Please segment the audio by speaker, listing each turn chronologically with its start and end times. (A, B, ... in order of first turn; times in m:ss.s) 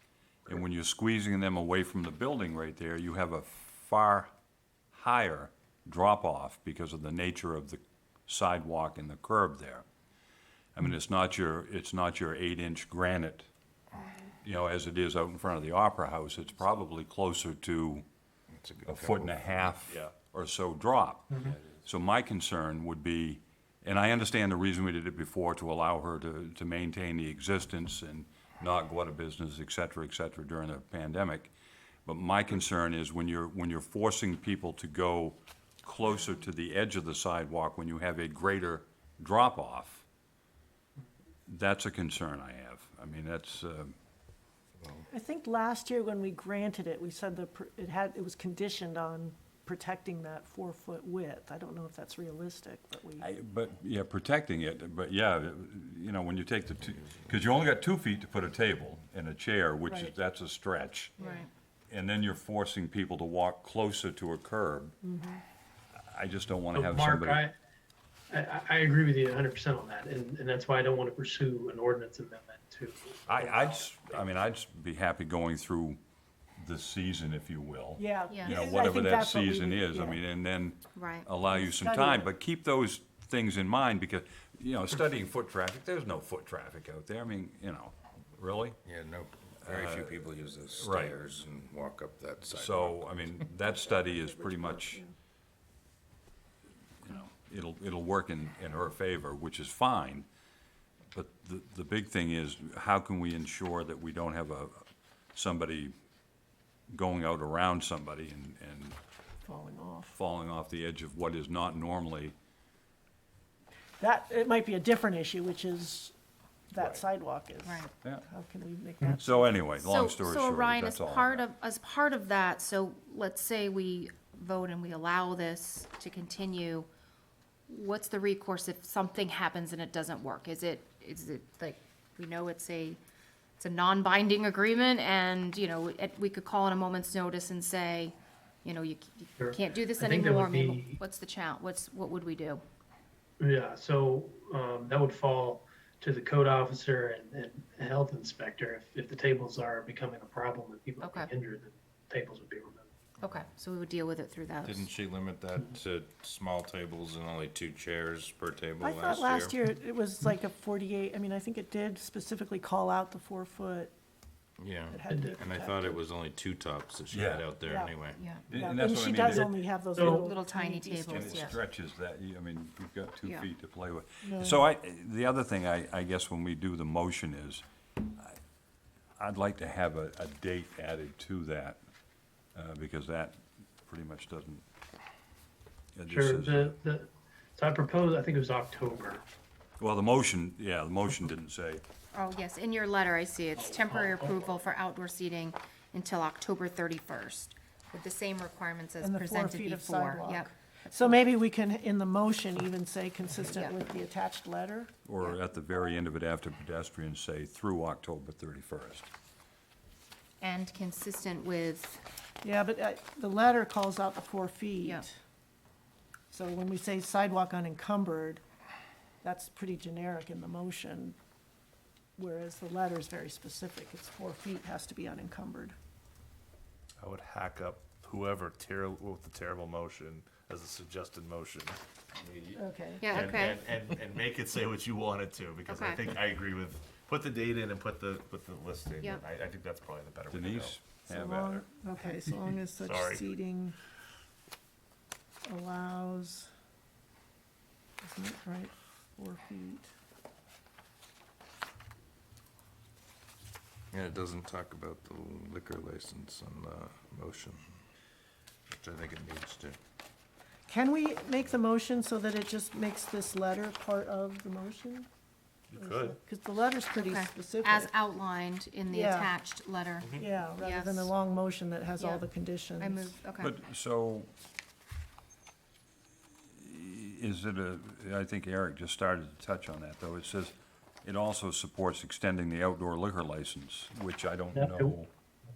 0:00.5-0:04.3 A
0:04.9-0:09.8 A
0:10.7-0:13.5 A
0:14.4-0:18.0 A
0:18.5-0:19.9 B
0:18.8-0:31.5 A
0:32.0-0:40.0 A
0:41.5-0:43.9 A
0:45.1-0:53.3 C
0:53.2-1:01.1 A
0:59.9-1:00.1 C
1:01.2-1:01.4 C
1:01.2-1:01.5 D
1:01.9-1:04.9 A
1:05.0-1:05.4 C
1:06.0-1:07.4 A
1:06.7-1:07.5 E
1:08.3-1:14.2 E
1:13.3-1:16.0 A
1:16.6-1:28.8 A
1:18.0-1:20.2 C
1:18.3-1:18.6 D
1:20.9-1:21.3 D
1:21.5-1:22.3 C
1:28.8-1:33.2 B
1:29.6-1:30.2 A
1:30.7-1:31.2 A
1:32.5-1:35.0 A
1:33.6-1:35.1 C
1:37.0-1:40.2 A
1:41.1-1:45.9 A
1:46.9-1:49.0 A
1:49.4-1:50.2 C
1:50.1-1:52.3 A
1:54.0-1:56.1 C
1:56.7-1:59.6 C
1:56.8-1:57.0 A
1:57.6-1:57.9 D
1:59.2-2:01.4 A
1:59.8-2:06.9 D
2:07.7-2:13.0 D
2:13.6-2:22.6 D
2:19.4-2:21.0 E
2:23.4-2:32.9 E
2:31.0-2:31.3 D
2:33.2-2:34.9 D
2:34.6-2:39.6 B
2:38.8-2:43.9 C
2:44.6-2:48.2 B
2:44.9-2:46.0 C
2:45.1-2:45.4 E
2:47.1-2:47.5 A
2:47.6-2:47.9 C
2:48.2-2:48.4 D
2:48.5-2:49.5 A
2:48.5-2:51.6 C
2:50.0-2:50.3 E
2:50.1-2:51.6 D
2:51.1-2:57.6 A
2:54.2-2:54.6 C
2:59.2-3:01.8 A
3:02.5-3:04.6 A
3:05.9-3:06.8 A
3:06.1-3:09.2 E
3:09.8-3:11.8 A
3:12.1-3:21.2 D
3:13.6-3:14.6 E
3:19.0-3:24.9 C
3:23.5-3:23.8 D
3:25.0-3:29.1 A
3:30.4-3:32.0 D
3:32.4-3:35.2 C
3:36.3-3:38.4 C
3:39.2-3:41.2 C
3:42.2-3:45.7 C
3:47.0-4:00.8 F
3:52.6-3:53.3 C
3:53.0-3:53.6 D
3:55.6-3:56.1 D
4:00.3-4:01.6 A
4:01.1-4:03.8 C
4:02.7-4:03.3 F
4:05.4-4:06.5 C
4:08.0-4:09.9 C
4:13.9-4:17.6 B
4:18.7-4:19.8 B
4:20.7-4:25.1 C
4:25.7-4:26.2 F
4:25.8-4:27.9 C
4:27.0-4:31.1 D
4:28.9-4:29.3 C
4:30.0-4:30.3 F
4:30.2-4:33.2 C
4:32.0-4:32.2 D
4:32.8-4:33.5 D
4:33.4-4:34.3 A
4:36.5-4:45.1 A
4:44.5-4:45.0 E